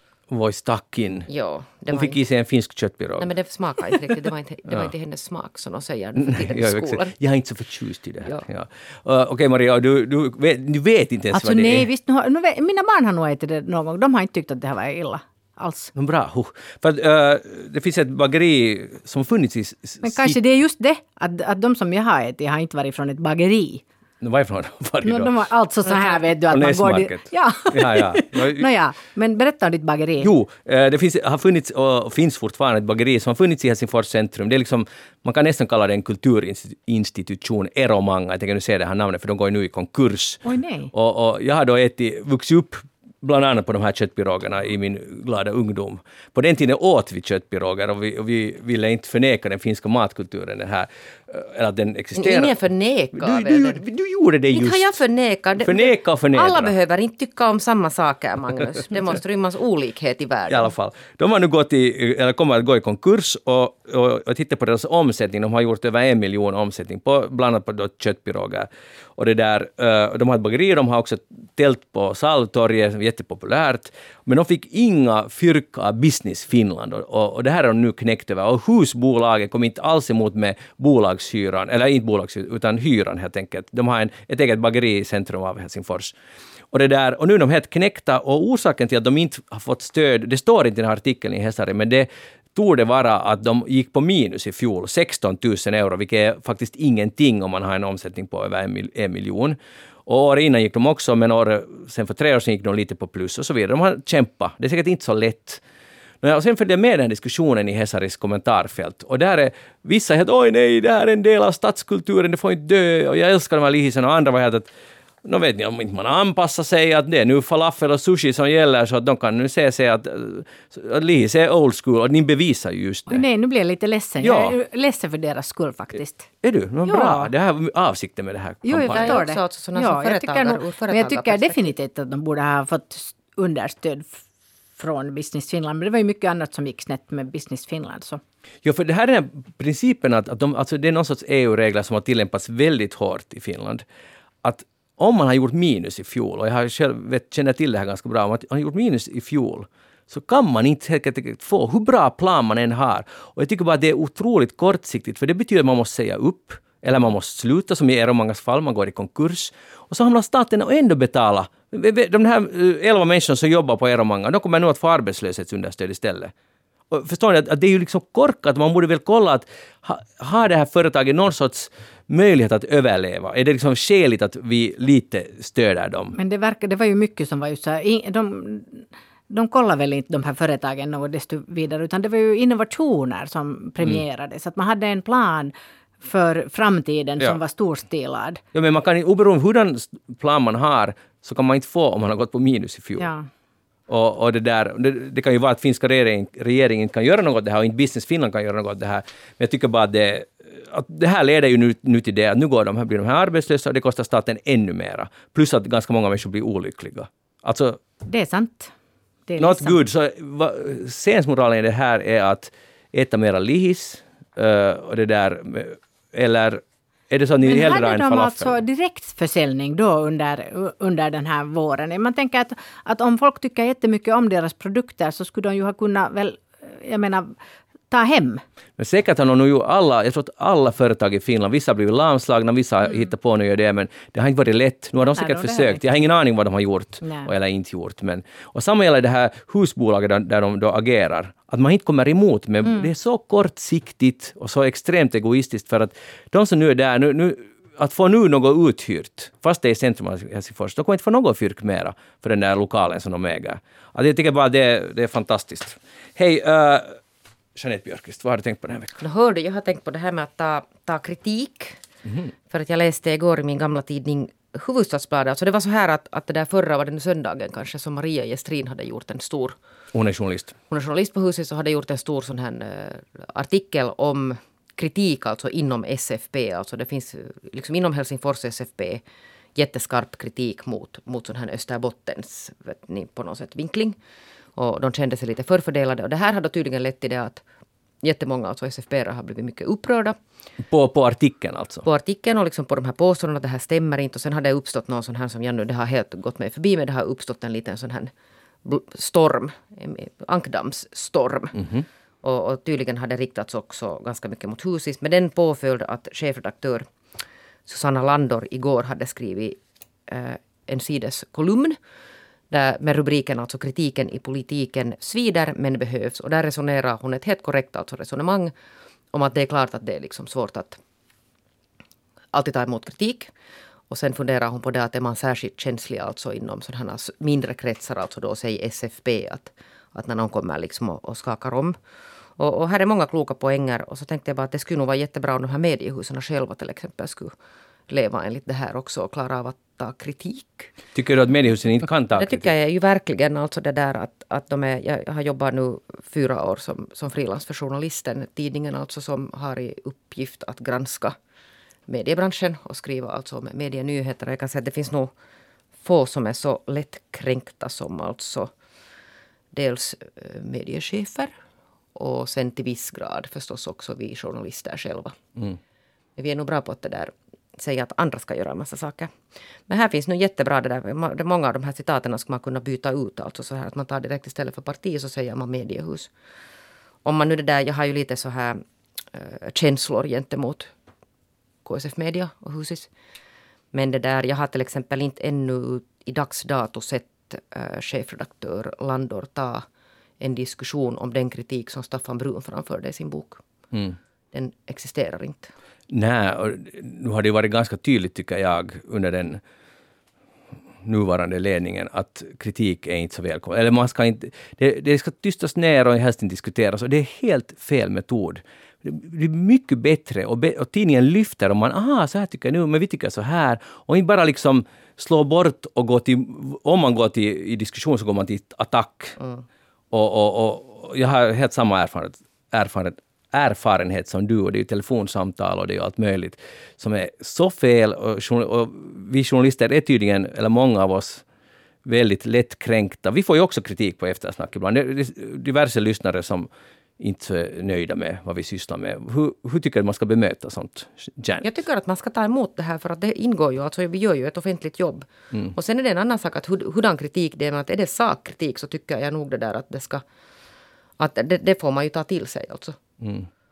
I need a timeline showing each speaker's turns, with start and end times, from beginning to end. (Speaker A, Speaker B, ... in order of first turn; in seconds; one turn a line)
Speaker A: 0.3-1.3
Speaker B: 1.3-2.2
Speaker A: 1.9-3.3
Speaker B: 3.2-7.1
Speaker A: 6.2-11.9
Speaker C: 11.3-15.9
Speaker A: 15.9-20.4
Speaker C: 20.0-23.8
Speaker A: 24.2-25.5
Speaker C: 25.0-30.3
Speaker A: 26.5-28.7
Speaker A: 30.2-52.6
Speaker C: 40.4-40.9
Speaker B: 52.1-53.8
Speaker A: 53.1-55.0
Speaker B: 54.5-60.7
Speaker A: 55.6-56.8
Speaker A: 60.5-86.1
Speaker A: 86.7-105.6
Speaker A: 106.2-114.7
Speaker A: 115.2-123.2
Speaker C: 123.1-126.3
Speaker A: 124.2-124.5
Speaker A: 126.4-129.2
Speaker C: 126.9-127.3
Speaker C: 128.6-134.2
Speaker B: 128.8-131.7
Speaker C: 134.8-138.2
Speaker A: 138.6-143.8
Speaker A: 144.4-166.3
Speaker A: 166.9-176.2
Speaker C: 176.2-188.4
Speaker A: 188.5-193.1
Speaker C: 193.0-193.3
Speaker A: 193.9-207.8
Speaker C: 208.1-208.7
Speaker C: 209.3-209.8
Speaker A: 209.4-218.6
Speaker C: 217.4-227.3
Speaker C: 227.9-228.4
Speaker A: 228.8-257.0
Speaker C: 235.0-235.8
Speaker C: 237.0-237.3
Speaker A: 257.6-259.0
Speaker B: 259.0-261.8
Speaker A: 262.1-262.3
Speaker B: 262.5-269.6
Speaker A: 269.9-270.5
Speaker B: 270.7-279.0
Speaker B: 279.6-284.0
Speaker B: 284.6-287.4
Speaker B: 288.0-290.2
Speaker A: 290.7-291.9
Speaker B: 291.9-298.1
Speaker B: 298.6-301.6
Speaker A: 301.6-301.9
Speaker B: 302.2-306.9
Speaker B: 307.7-311.8
Speaker B: 312.5-318.5
Speaker B: 319.1-320.8
Speaker B: 322.3-323.3
Speaker B: 323.9-331.8
Speaker B: 332.4-337.3
Speaker B: 337.9-340.7
Speaker A: 340.9-342.5
Speaker B: 342.1-351.1
Speaker B: 351.9-355.1
Speaker B: 355.8-358.5
Speaker B: 359.5-361.3
Speaker B: 361.9-365.2
Speaker B: 366.2-369.1
Speaker B: 369.7-376.1
Speaker B: 377.1-380.7
Speaker B: 381.6-382.9
Speaker B: 383.7-389.6
Speaker B: 390.2-393.4
Speaker B: 394.3-395.5
Speaker A: 395.9-399.4
Speaker A: 400.8-419.2
Speaker B: 419.2-419.4
Speaker A: 419.9-431.2
Speaker A: 431.9-441.5
Speaker B: 441.4-450.0
Speaker B: 451.0-452.8
Speaker A: 453.0-453.3